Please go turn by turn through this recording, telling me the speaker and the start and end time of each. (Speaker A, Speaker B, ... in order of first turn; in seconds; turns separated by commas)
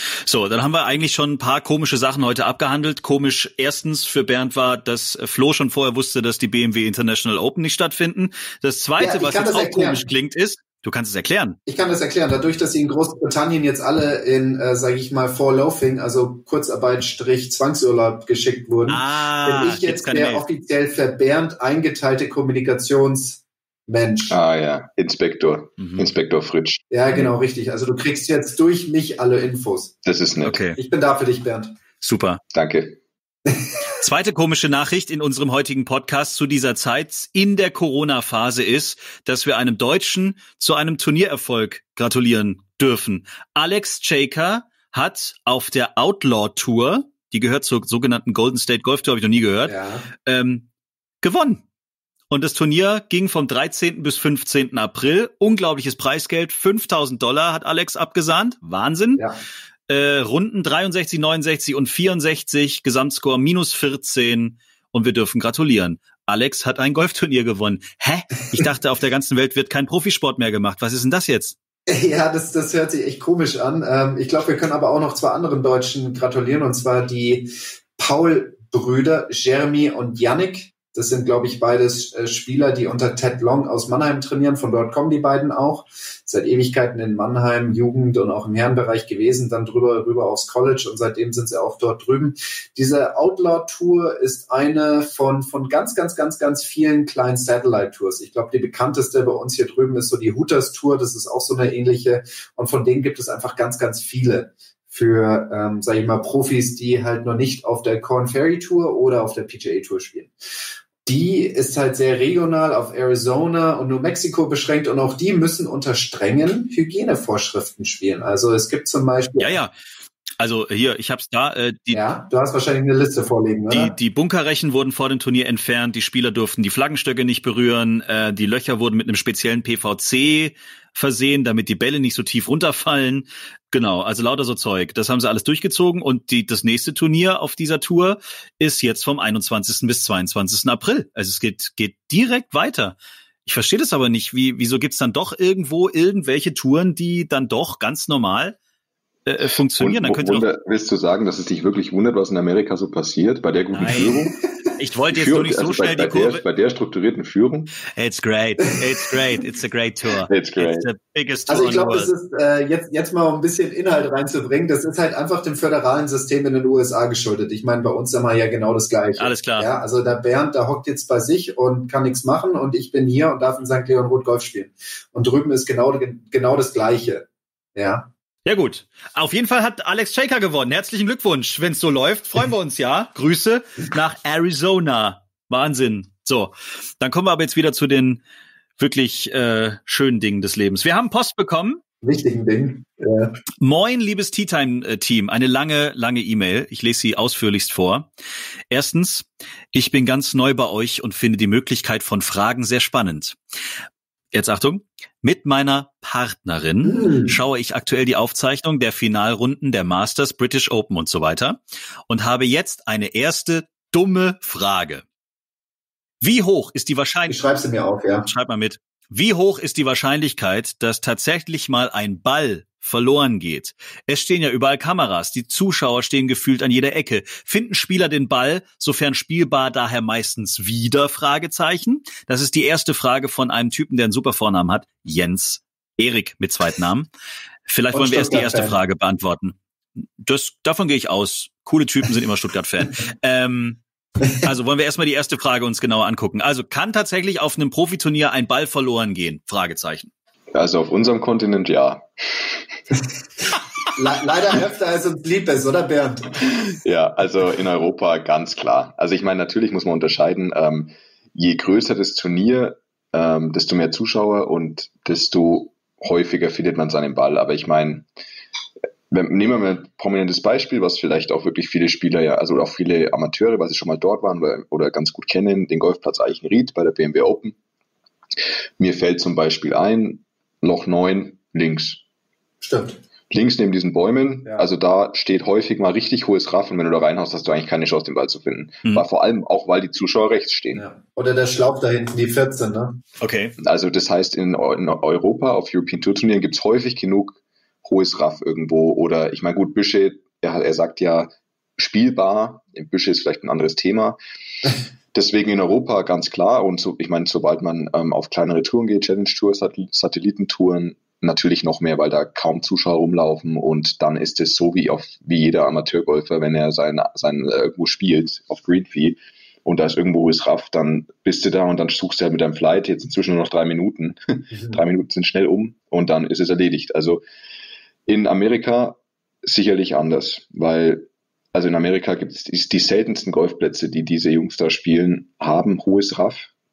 Speaker A: 0.2-11.6, Speaker B: 9.0-10.1, Speaker B: 11.7-24.4, Speaker A: 18.9-20.4, Speaker C: 24.3-26.8, Speaker A: 25.8-26.1, Speaker B: 26.9-29.9, Speaker C: 30.0-30.6, Speaker A: 30.4-30.8, Speaker B: 30.8-31.7, Speaker A: 32.0-32.4, Speaker C: 32.5-33.0, Speaker A: 34.0-49.7, Speaker B: 49.7-50.1, Speaker A: 50.3-50.7, Speaker A: 51.2-51.6, Speaker A: 52.3-59.2, Speaker A: 59.9-71.5, Speaker B: 71.9-110.3, Speaker B: 111.1-119.6, Speaker A: 119.4-119.7, Speaker A: 120.4-122.1, Speaker B: 121.9-123.9, Speaker A: 123.7-148.6, Speaker A: 149.3-150.5, Speaker C: 149.8-154.4, Speaker A: 153.7-154.2, Speaker A: 154.8-156.4, Speaker C: 155.1-157.8, Speaker A: 157.9-162.1, Speaker C: 160.3-160.9, Speaker B: 161.5-178.1, Speaker A: 169.2-169.7, Speaker A: 178.5-188.2, Speaker A: 188.8-191.8, Speaker B: 192.0-193.4, Speaker A: 193.6-198.1, Speaker A: 198.7-203.4, Speaker A: 204.3-215.0, Speaker B: 206.8-207.3, Speaker A: 216.2-217.4, Speaker B: 217.3-218.3, Speaker A: 218.3-237.1, Speaker A: 237.7-239.6, Speaker B: 237.9-238.8, Speaker A: 240.2-243.8, Speaker A: 244.4-250.1, Speaker C: 250.5-252.6, Speaker B: 253.9-256.4, Speaker C: 256.5-268.1, Speaker C: 269.1-277.6, Speaker C: 278.8-282.0, Speaker B: 282.6-283.0, Speaker C: 283.3-290.8, Speaker B: 290.7-293.0, Speaker A: 293.2-293.6, Speaker C: 293.6-304.2, Speaker C: 305.1-327.2, Speaker B: 324.5-324.8, Speaker C: 328.1-336.5